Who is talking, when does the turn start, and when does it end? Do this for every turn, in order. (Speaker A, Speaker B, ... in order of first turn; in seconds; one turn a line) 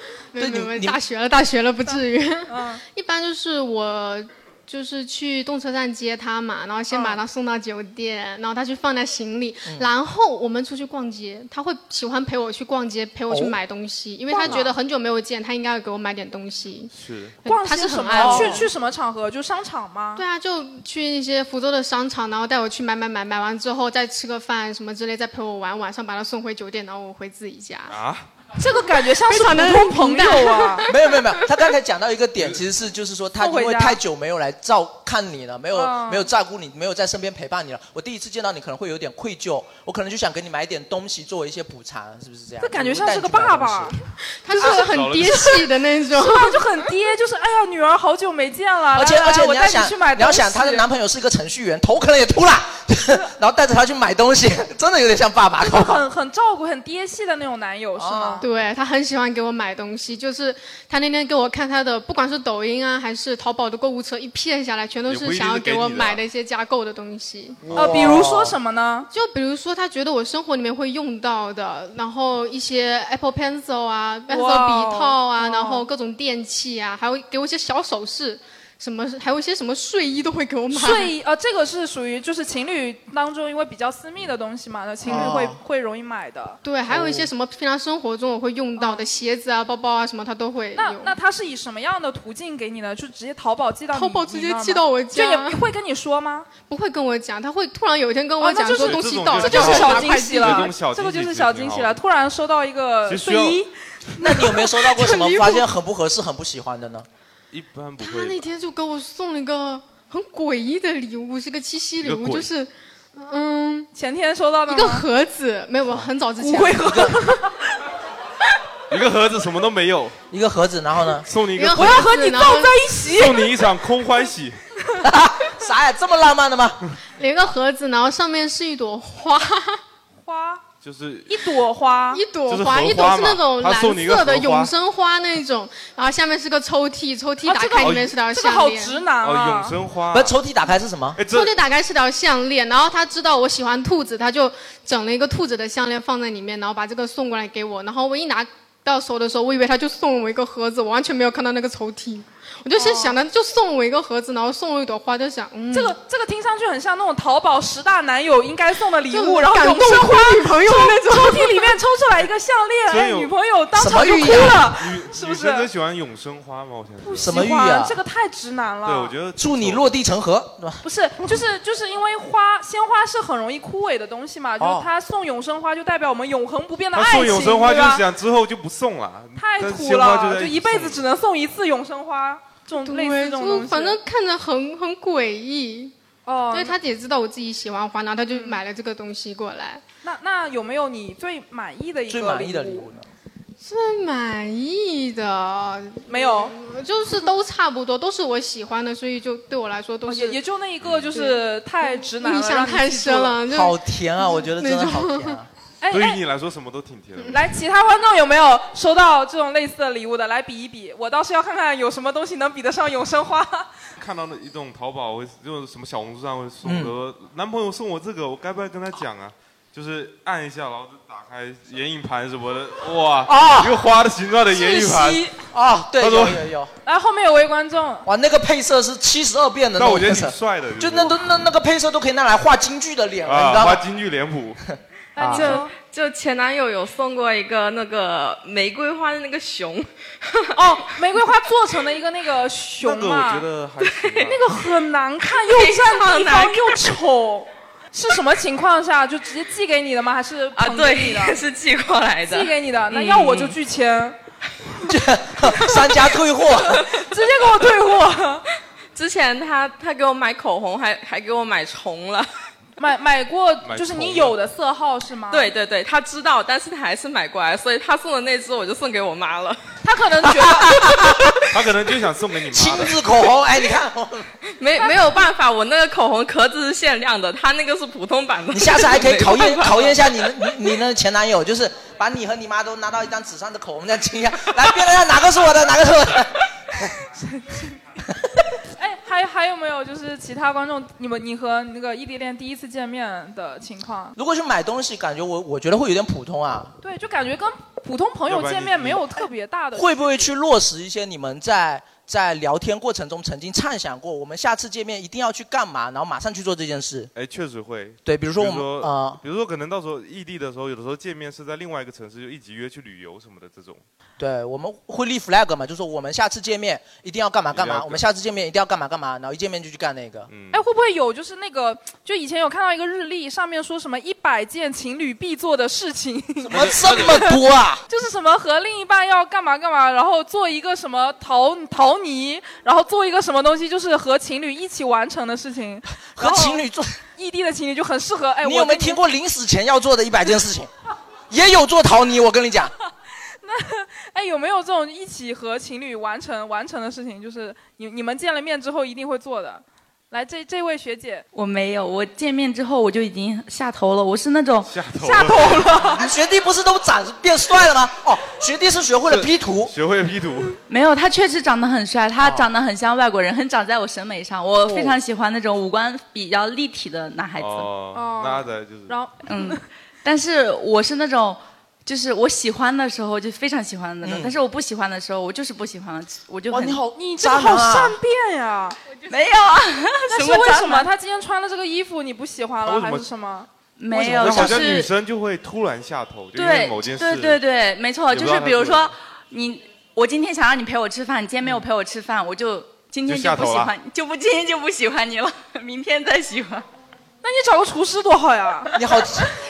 Speaker A: 0.3-16.9
Speaker B: 0.3-1.0
Speaker C: 1.8-2.8
Speaker C: 6.9-7.2
Speaker B: 13.3-13.6
Speaker C: 14.3-14.7
Speaker D: 16.9-17.4
Speaker A: 17.4-18.7
Speaker C: 17.4-20.2
Speaker B: 18.1-18.7
Speaker A: 20.1-27.9
Speaker D: 27.9-28.3
Speaker C: 28.6-30.9
Speaker A: 29.2-31.0
Speaker B: 30.9-44.0
Speaker C: 33.4-34.0
Speaker C: 35.7-36.3
Speaker C: 42.6-50.9
Speaker A: 44.4-46.9
Speaker D: 44.7-45.6
Speaker B: 48.9-56.0
Speaker C: 55.7-58.5
Speaker B: 58.0-58.5
Speaker A: 58.4-67.6
Speaker D: 65.1-66.2
Speaker B: 67.6-68.5
Speaker C: 67.7-69.1
Speaker A: 69.1-81.1
Speaker C: 74.3-75.9
Speaker C: 80.7-86.6
Speaker A: 85.0-85.5
Speaker B: 85.1-85.5
Speaker A: 86.6-91.1
Speaker B: 86.9-87.3
Speaker C: 88.8-89.1
Speaker C: 90.7-96.5
Speaker A: 93.9-95.6
Speaker A: 96.7-100.7
Speaker C: 98.4-104.8
Speaker D: 98.7-102.0
Speaker D: 103.1-103.6
Speaker B: 104.2-107.1
Speaker A: 105.0-105.6
Speaker D: 107.5-108.5
Speaker A: 108.0-113.9
Speaker D: 112.0-112.5
Speaker C: 113.9-115.0
Speaker A: 114.7-117.1
Speaker C: 116.4-117.6
Speaker B: 116.8-117.2
Speaker D: 118.9-120.1
Speaker B: 120.3-121.3
Speaker D: 121.3-122.1
Speaker A: 121.5-123.1
Speaker C: 121.7-123.5
Speaker D: 123.1-124.6
Speaker B: 125.0-126.8
Speaker A: 127.2-129.8
Speaker C: 130.2-130.6
Speaker D: 130.8-131.4
Speaker C: 131.3-132.2
Speaker A: 132.1-139.0
Speaker D: 132.5-134.7
Speaker C: 137.4-139.8
Speaker D: 137.8-138.1
Speaker D: 139.2-140.3
Speaker B: 140.1-141.2
Speaker D: 141.2-141.6
Speaker A: 141.3-155.9
Speaker C: 152.7-153.2
Speaker C: 155.7-165.7
Speaker A: 159.1-161.8
Speaker D: 162.9-163.3
Speaker B: 163.8-164.6
Speaker D: 164.6-167.4
Speaker C: 167.0-169.1
Speaker B: 167.2-167.9
Speaker D: 168.8-169.9
Speaker B: 169.4-170.8
Speaker C: 170.8-178.0
Speaker B: 174.6-174.9
Speaker D: 176.9-181.0
Speaker C: 179.3-184.0
Speaker A: 182.8-185.9
Speaker C: 186.2-186.8
Speaker A: 186.5-189.8
Speaker C: 188.3-188.6
Speaker C: 190.0-192.9
Speaker B: 192.1-193.1
Speaker A: 193.6-200.4
Speaker C: 196.1-196.6
Speaker C: 200.1-203.4
Speaker D: 200.8-201.1
Speaker A: 201.1-205.4
Speaker B: 203.5-205.5
Speaker C: 205.8-206.2
Speaker D: 205.9-207.5
Speaker C: 207.3-213.7
Speaker D: 214.0-225.3
Speaker B: 216.6-216.9
Speaker B: 223.3-223.8
Speaker C: 224.5-225.3
Speaker B: 225.5-226.7
Speaker D: 226.0-226.4
Speaker C: 226.8-228.1
Speaker B: 228.1-233.8
Speaker D: 229.8-231.2
Speaker D: 233.2-234.6
Speaker C: 235.1-235.7
Speaker B: 235.2-235.6
Speaker E: 235.3-241.1
Speaker C: 240.5-243.4
Speaker D: 242.8-244.5
Speaker E: 243.8-244.2
Speaker C: 244.2-251.4
Speaker E: 245.4-246.8
Speaker E: 250.6-252.5
Speaker C: 252.2-254.2
Speaker E: 253.0-253.3
Speaker B: 254.9-256.9
Speaker C: 255.6-255.9
Speaker C: 256.9-258.5
Speaker E: 258.9-262.3
Speaker C: 262.8-265.5
Speaker D: 263.6-264.4
Speaker E: 265.3-269.6
Speaker C: 269.8-271.3
Speaker B: 270.4-271.3
Speaker D: 271.5-273.0
Speaker B: 272.5-274.3
Speaker E: 274.6-279.9
Speaker B: 278.5-286.9
Speaker C: 287.2-287.8
Speaker C: 288.8-294.1
Speaker B: 294.1-296.7
Speaker C: 296.8-300.1
Speaker D: 298.3-299.0
Speaker B: 299.7-307.1
Speaker D: 307.1-313.8
Speaker B: 308.1-309.2
Speaker B: 314.2-320.3
Speaker D: 317.5-318.0
Speaker D: 320.3-320.6
Speaker C: 320.5-327.4
Speaker B: 326.4-327.8
Speaker D: 326.5-327.2
Speaker C: 327.9-336.6
Speaker B: 336.1-337.0
Speaker C: 337.2-339.0
Speaker B: 338.4-340.7
Speaker B: 341.3-342.7
Speaker C: 343.4-351.2
Speaker F: 351.3-354.7
Speaker D: 354.6-355.7
Speaker C: 355.0-356.0
Speaker B: 355.9-359.7
Speaker D: 359.1-360.6
Speaker F: 360.7-367.6
Speaker B: 362.2-362.4
Speaker B: 364.7-365.0
Speaker D: 367.4-368.9
Speaker C: 367.9-369.6
Speaker F: 369.2-376.8
Speaker B: 374.0-374.3
Speaker B: 376.5-378.0
Speaker C: 376.9-378.8
Speaker F: 379.1-380.9
Speaker C: 380.1-383.5
Speaker D: 382.6-383.1
Speaker F: 383.8-384.9
Speaker D: 383.9-387.4
Speaker B: 383.9-384.7
Speaker F: 386.3-396.6
Speaker D: 388.1-388.9
Speaker D: 393.0-393.7
Speaker C: 397.2-398.8
Speaker B: 398.7-399.3